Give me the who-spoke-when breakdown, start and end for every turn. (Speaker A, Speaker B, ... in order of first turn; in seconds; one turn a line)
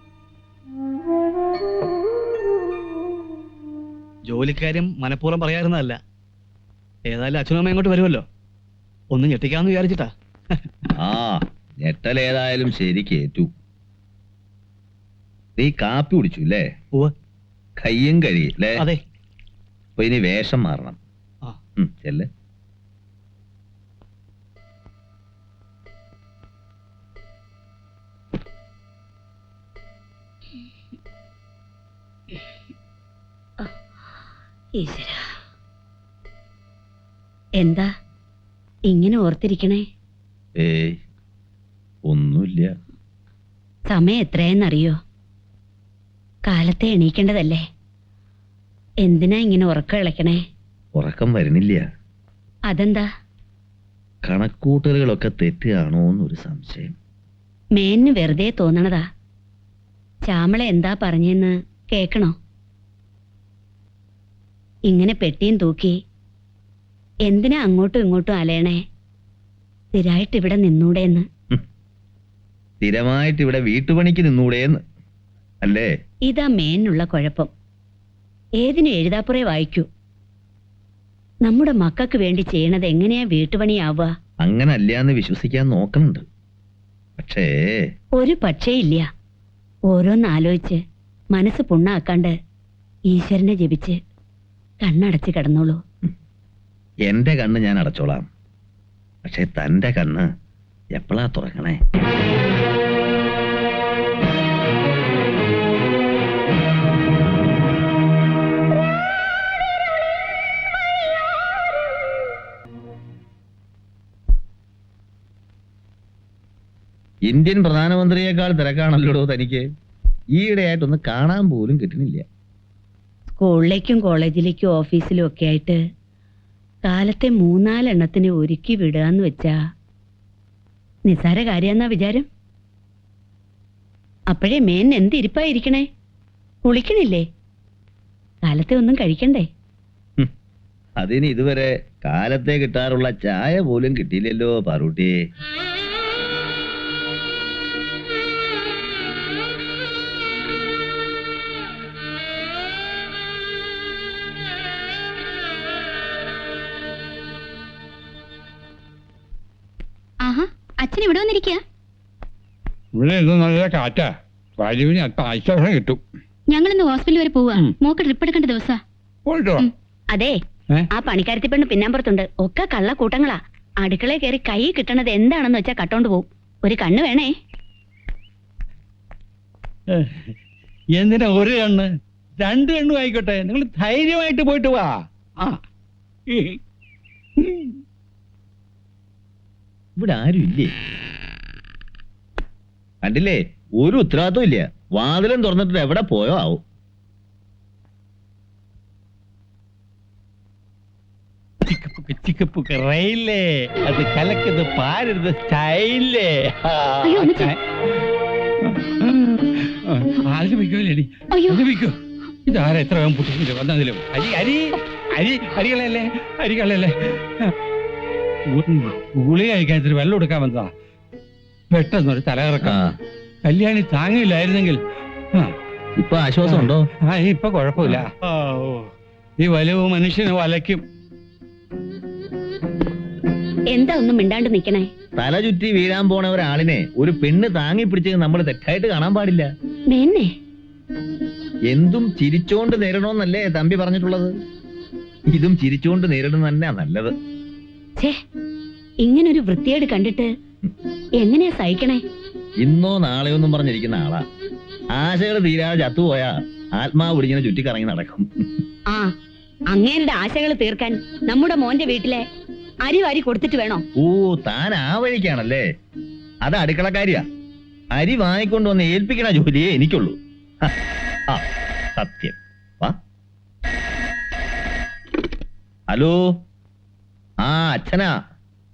Speaker A: 4.2-6.0
Speaker A: 7.1-8.2
Speaker A: 9.1-10.6
Speaker B: 11.0-13.5
Speaker B: 15.6-16.6
Speaker B: 17.8-18.8
Speaker B: 20.0-21.0
Speaker B: 21.8-22.2
Speaker C: 34.8-35.2
Speaker C: 37.6-37.9
Speaker C: 38.9-39.8
Speaker B: 40.5-41.0
Speaker B: 42.0-42.7
Speaker C: 43.9-45.0
Speaker C: 46.5-47.6
Speaker C: 49.0-50.4
Speaker B: 50.9-51.8
Speaker C: 52.7-53.0
Speaker B: 54.2-56.9
Speaker C: 57.8-59.0
Speaker C: 60.3-62.3
Speaker C: 64.9-65.9
Speaker C: 67.3-68.8
Speaker C: 69.9-71.2
Speaker B: 72.8-74.8
Speaker B: 75.6-75.9
Speaker C: 76.3-77.5
Speaker C: 78.6-79.8
Speaker C: 81.4-84.1
Speaker B: 84.4-86.2
Speaker B: 87.2-87.5
Speaker C: 88.2-89.1
Speaker C: 89.9-90.8
Speaker C: 91.3-92.3
Speaker C: 93.1-94.0
Speaker C: 94.8-95.8
Speaker B: 97.1-98.3
Speaker B: 99.2-100.3
Speaker B: 100.9-101.8
Speaker B: 117.3-119.6
Speaker B: 120.3-122.2
Speaker C: 123.3-125.8
Speaker C: 126.9-129.6
Speaker C: 131.1-132.3
Speaker C: 134.3-135.8
Speaker C: 136.7-137.2
Speaker C: 138.4-139.4
Speaker B: 141.0-145.1
Speaker D: 160.2-161.6
Speaker E: 162.9-166.0
Speaker D: 166.5-168.8
Speaker E: 169.2-169.7
Speaker C: 170.9-177.3
Speaker E: 180.9-185.6
Speaker E: 186.3-186.6
Speaker B: 190.0-190.7
Speaker B: 193.0-196.6
Speaker E: 201.7-207.6
Speaker D: 207.1-207.5
Speaker E: 208.7-217.5
Speaker E: 218.5-220.7
Speaker E: 221.7-222.8
Speaker B: 222.6-222.9
Speaker E: 223.4-224.8
Speaker B: 226.0-226.8
Speaker E: 226.4-228.9
Speaker E: 229.4-230.8
Speaker C: 233.7-234.8
Speaker B: 235.2-239.5
Speaker C: 239.9-240.3
Speaker B: 241.7-244.3
Speaker B: 245.3-247.1
Speaker C: 249.0-250.3
Speaker C: 251.2-252.0
Speaker B: 252.6-254.2
Speaker B: 254.9-258.4
Speaker C: 259.7-262.2
Speaker C: 262.8-263.8
Speaker B: 263.9-265.6
Speaker B: 266.4-267.2
Speaker B: 267.9-270.7
Speaker B: 272.0-272.9
Speaker B: 275.9-276.2
Speaker B: 277.4-278.1